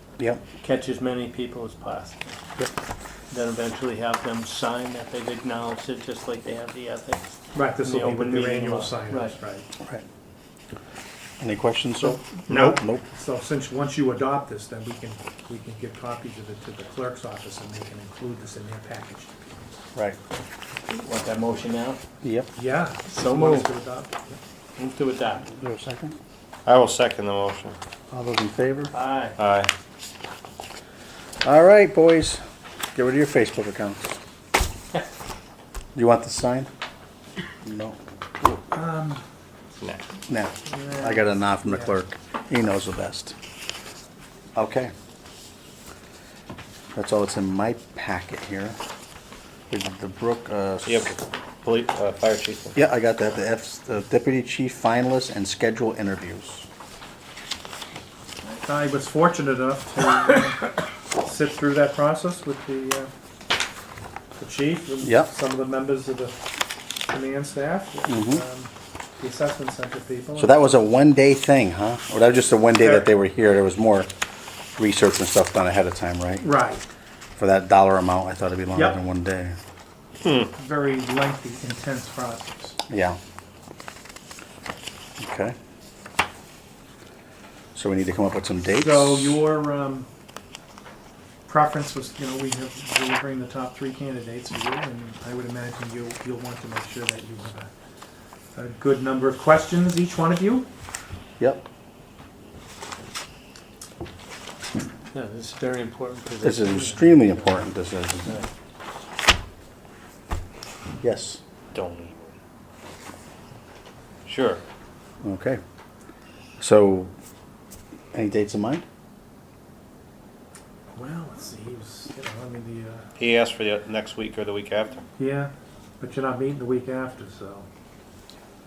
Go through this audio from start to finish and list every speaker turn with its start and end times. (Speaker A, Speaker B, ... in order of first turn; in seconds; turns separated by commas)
Speaker A: 0.6-2.4, Speaker A: 3.3-9.4, Speaker B: 7.5-9.7, Speaker C: 11.4-13.0, Speaker B: 12.0-19.3, Speaker A: 20.9-22.0, Speaker C: 22.2-22.5, Speaker B: 22.6-24.4, Speaker A: 23.1-23.7, Speaker A: 24.8-25.5, Speaker C: 25.5-26.2, Speaker D: 26.7-27.8, Speaker C: 28.1-28.9, Speaker A: 28.9-29.4, Speaker D: 29.4-29.7, Speaker C: 31.4-32.4, Speaker C: 33.0-34.0, Speaker C: 36.0-36.7, Speaker C: 37.6-38.6, Speaker B: 38.7-39.2, Speaker C: 40.3-43.3, Speaker B: 40.8-41.9, Speaker C: 44.5-44.9, Speaker C: 47.0-48.8, Speaker C: 49.7-51.1, Speaker D: 50.9-52.8, Speaker C: 52.8-56.7, Speaker B: 58.4-63.1, Speaker B: 64.4-66.5, Speaker C: 65.0-65.3, Speaker B: 67.1-70.5, Speaker C: 68.1-68.4, Speaker C: 70.4-74.1, Speaker B: 72.8-73.1, Speaker C: 74.8-76.4, Speaker B: 76.4-76.9, Speaker C: 77.4-79.6, Speaker D: 80.2-80.5, Speaker B: 80.5-82.8, Speaker C: 82.9-83.2, Speaker C: 85.2-85.5, Speaker C: 87.8-89.4, Speaker B: 88.8-90.1, Speaker B: 91.5-97.7, Speaker B: 98.5-100.7, Speaker C: 101.4-101.6, Speaker A: 105.1-107.5, Speaker C: 106.4-108.4, Speaker C: 111.0-111.4, Speaker D: 111.7-112.2, Speaker D: 114.3-114.6, Speaker C: 115.2-115.6, Speaker C: 116.6-117.1, Speaker C: 118.1-118.8, Speaker B: 121.0-123.1, Speaker D: 123.2-125.0, Speaker B: 125.2-127.7